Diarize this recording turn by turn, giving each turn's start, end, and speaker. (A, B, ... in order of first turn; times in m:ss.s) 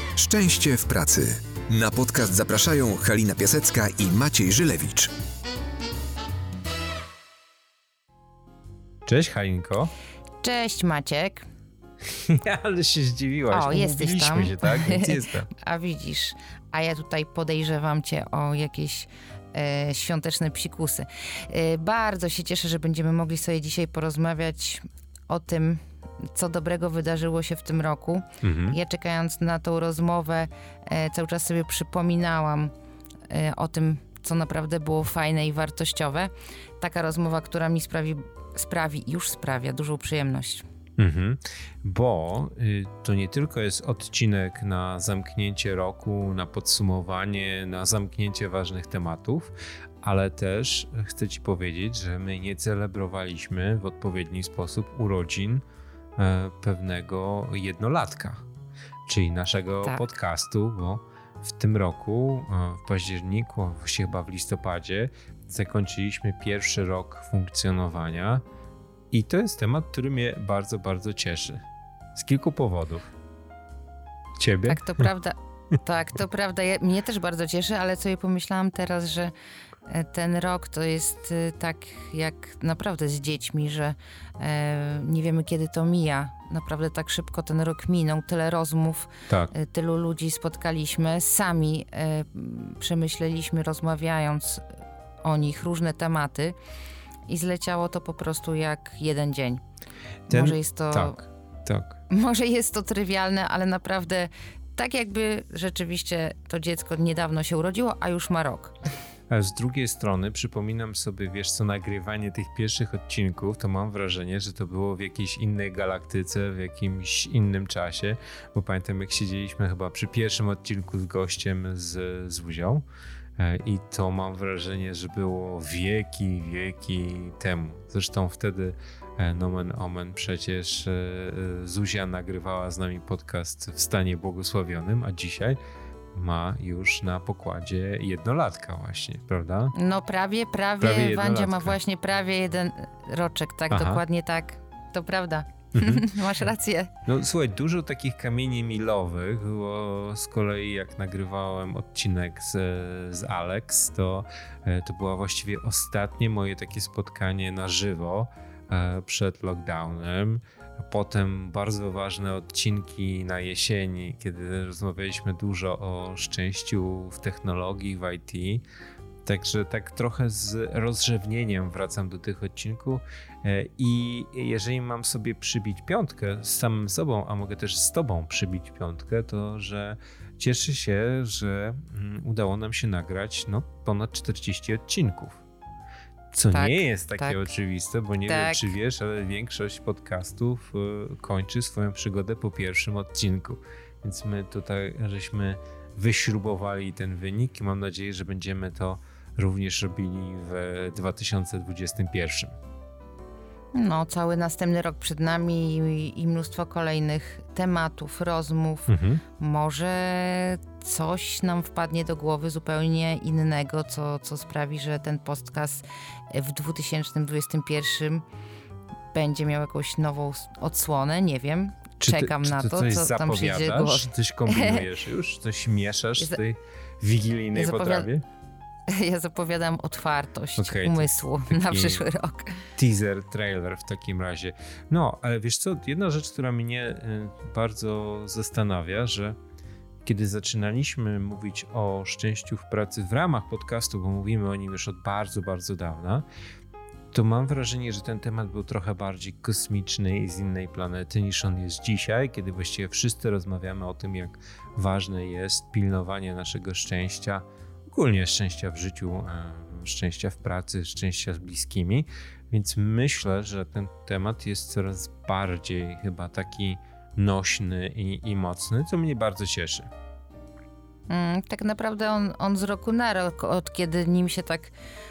0:00.2-0:05.1 A
0:09.0-0:09.9 B
0:10.4-0:11.4 C
0:12.0-0:15.5 B
0:13.5-0:32.7 C
0:28.4-0:28.8 B
0:33.3-0:40.6 C
0:41.0-0:55.6 B
0:56.2-0:58.4 B
0:59.0-1:08.4 B
1:09.1-1:11.6 B
1:12.1-1:13.1 B
1:14.4-1:15.1 B
1:14.6-1:19.3 C
1:19.9-1:34.6 C
1:35.2-1:36.6 C
1:37.3-1:39.6 C
1:40.3-1:41.2 C
1:40.3-1:42.0 B
1:42.1-1:48.7 C
1:49.3-2:02.8 B
2:03.4-2:15.6 B
2:16.1-2:19.7 B
2:19.7-2:26.9 C
2:20.8-2:21.8 B
2:23.7-2:24.0 B
2:25.7-2:26.1 B
2:27.0-2:48.6 B
2:49.2-3:05.4 B
3:06.3-3:22.5 B
3:06.5-3:07.5 C
3:08.2-3:08.7 C
3:23.7-3:38.2 C
3:28.9-3:29.2 B
3:39.1-3:44.8 C
3:42.0-3:48.2 B
3:47.5-3:48.1 C
3:48.9-3:52.7 C
3:50.6-3:52.0 B
3:52.8-3:59.4 B
4:00.0-4:06.2 B
4:07.1-4:29.9 B
4:31.1-4:34.7 C